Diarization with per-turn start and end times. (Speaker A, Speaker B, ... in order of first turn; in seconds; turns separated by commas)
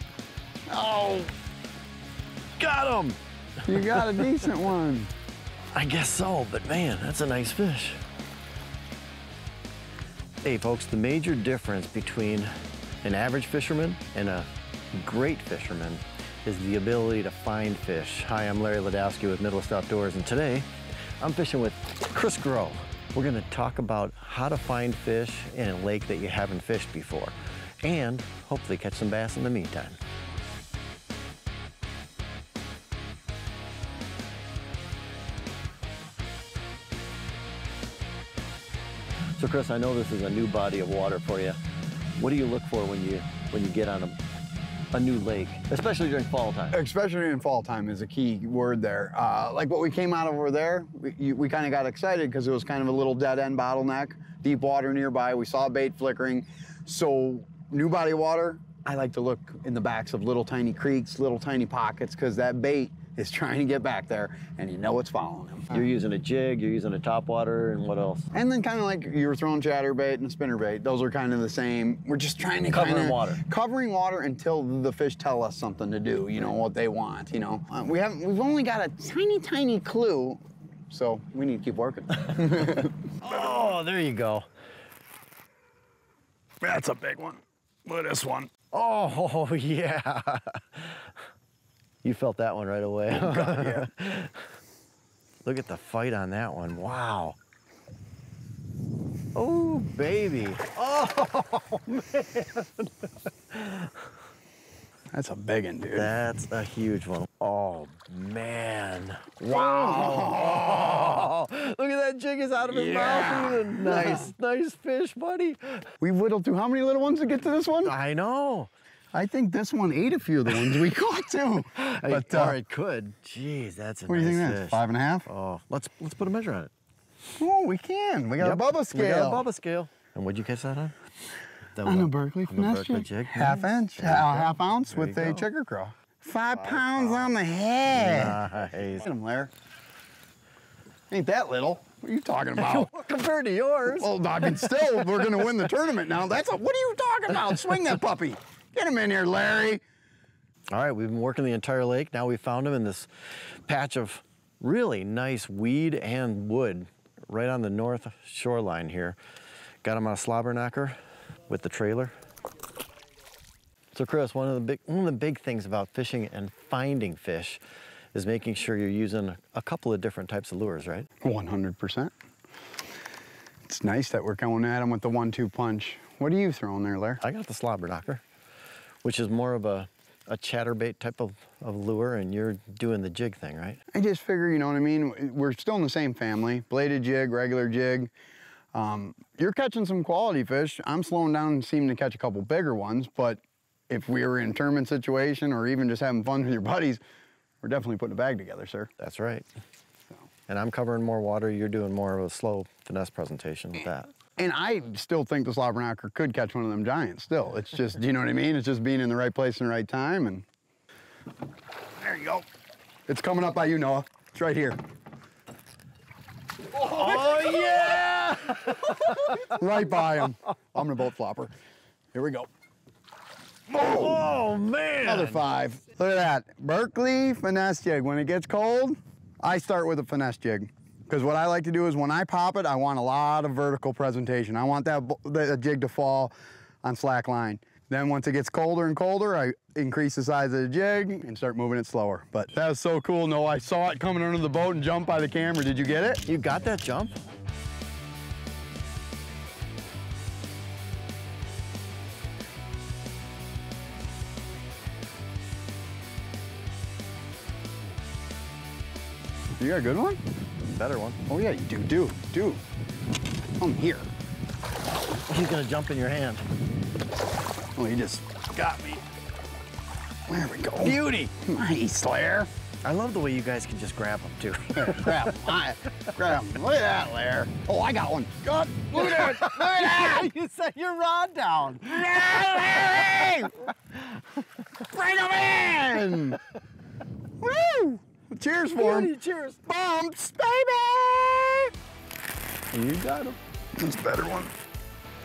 Speaker A: 0.7-1.3, Speaker B: 2.6-3.2, Speaker A: 3.6-5.1, Speaker B: 5.7-8.0, Speaker B: 10.4-12.5, Speaker B: 13.0-20.7, Speaker B: 21.2-30.0, Speaker B: 39.4-41.6, Speaker B: 42.2-44.2, Speaker B: 44.9-46.8, Speaker A: 46.7-65.8, Speaker B: 65.7-68.3, Speaker A: 68.3-82.9, Speaker B: 72.7-73.4, Speaker B: 83.2-84.5, Speaker A: 86.6-88.5, Speaker B: 88.7-91.0, Speaker B: 92.0-94.3, Speaker A: 93.1-93.9, Speaker B: 95.4-97.4, Speaker B: 99.3-103.9, Speaker A: 105.1-106.1, Speaker B: 105.9-115.9, Speaker A: 109.5-111.2, Speaker A: 112.6-114.3, Speaker A: 116.0-117.9, Speaker B: 117.8-118.7, Speaker A: 119.1-122.6, Speaker B: 121.8-126.7, Speaker A: 124.1-125.3, Speaker A: 127.4-129.4, Speaker B: 128.4-130.9, Speaker B: 131.7-135.5, Speaker A: 131.8-139.5, Speaker B: 136.6-137.3, Speaker B: 137.9-139.1, Speaker A: 141.1-142.9, Speaker B: 142.6-145.4, Speaker A: 143.9-149.8, Speaker B: 150.7-153.1, Speaker B: 153.7-159.2, Speaker B: 159.8-162.1, Speaker B: 163.9-167.6, Speaker B: 168.1-171.1, Speaker A: 171.2-172.1, Speaker A: 173.7-177.2, Speaker B: 177.2-178.2, Speaker B: 179.0-183.8, Speaker A: 183.9-188.1, Speaker A: 188.7-197.0, Speaker A: 197.6-198.9, Speaker B: 199.0-199.5, Speaker B: 200.5-204.1, Speaker A: 204.4-210.4, Speaker A: 212.0-212.4, Speaker A: 213.1-214.8, Speaker B: 216.8-219.5, Speaker A: 217.0-217.6, Speaker A: 219.4-221.5, Speaker A: 222.1-222.5, Speaker B: 223.7-225.4, Speaker A: 223.8-224.2, Speaker A: 225.0-246.2, Speaker B: 246.2-247.2, Speaker A: 259.6-260.2, Speaker B: 260.6-261.2, Speaker A: 261.2-262.6, Speaker A: 263.6-264.1, Speaker B: 265.3-266.4, Speaker A: 267.8-269.0, Speaker A: 270.3-272.5, Speaker B: 270.8-271.3, Speaker B: 272.8-275.4, Speaker A: 274.8-280.3, Speaker B: 278.9-283.7, Speaker A: 281.9-283.5, Speaker A: 284.9-286.4, Speaker A: 287.4-289.1, Speaker B: 288.7-289.6, Speaker A: 289.6-291.7, Speaker B: 292.7-293.4, Speaker A: 293.8-294.5